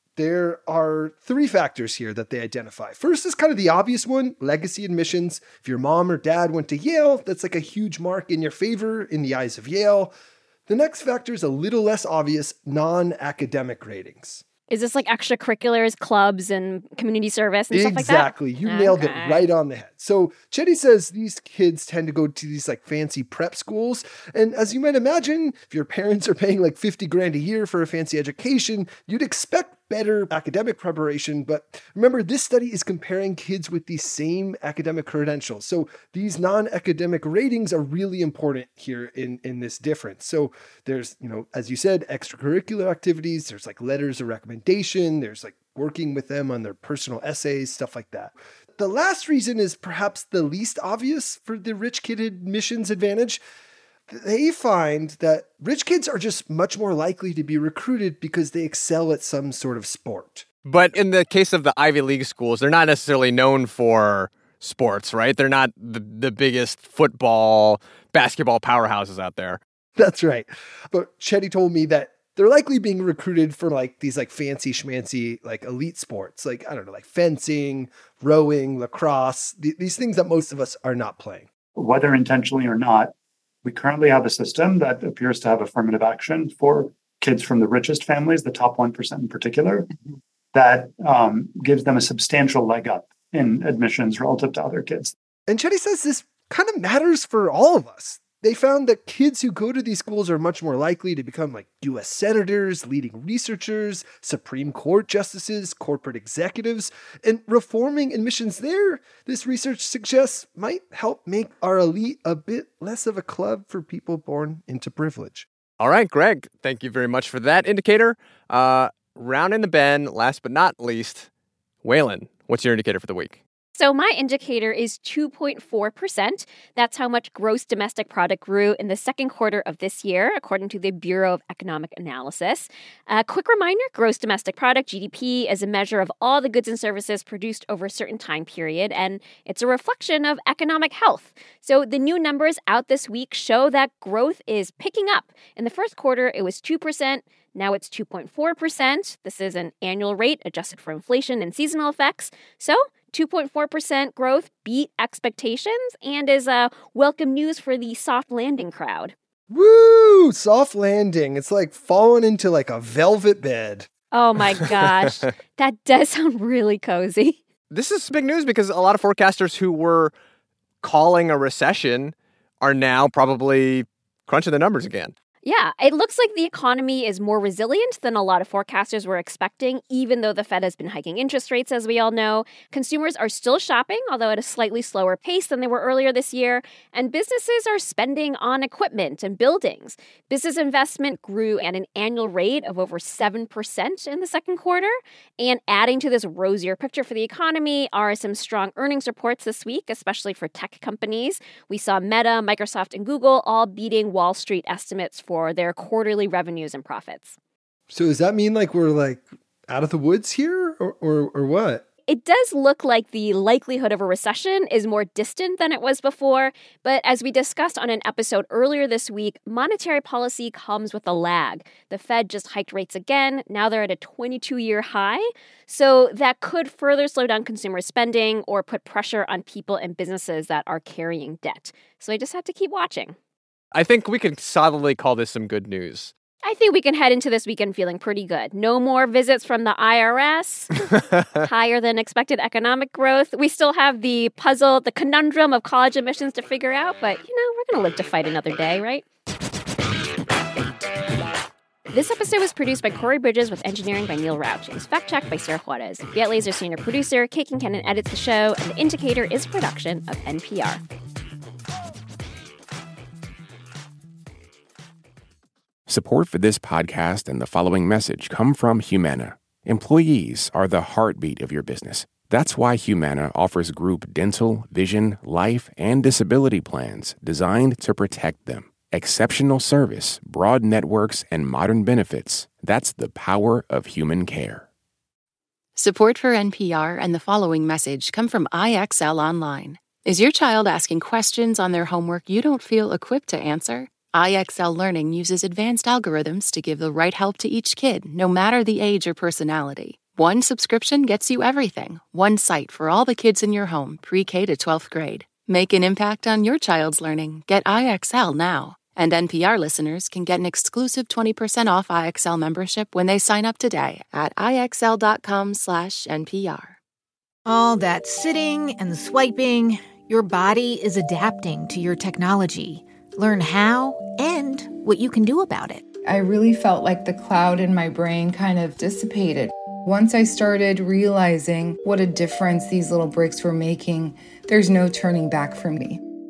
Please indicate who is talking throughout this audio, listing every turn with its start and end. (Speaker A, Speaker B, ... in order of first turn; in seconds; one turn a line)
Speaker A: 0.2-10.1
Speaker A: 10.7-14.4
Speaker B: 14.7-19.5
Speaker A: 17.7-53.4
Speaker A: 54.1-60.5
Speaker C: 60.6-69.6
Speaker A: 70.0-81.5
Speaker D: 81.8-83.1
Speaker D: 83.7-89.9
Speaker D: 90.5-95.1
Speaker A: 95.5-115.5
Speaker C: 115.8-121.3
Speaker C: 121.8-123.4
Speaker B: 123.8-159.1
Speaker A: 159.5-163.9
Speaker B: 164.1-167.4
Speaker C: 167.7-170.1
Speaker C: 170.8-175.1
Speaker B: 175.4-207.4
Speaker A: 207.9-211.8
Speaker B: 212.1-233.2
Speaker C: 233.7-236.1
Speaker B: 236.4-240.7
Speaker B: 241.4-249.0
Speaker B: 251.9-260.8
Speaker E: 265.9-284.6
Speaker F: 285.8-316.8
Speaker G: 317.4-325.8
Speaker H: 326.1-336.0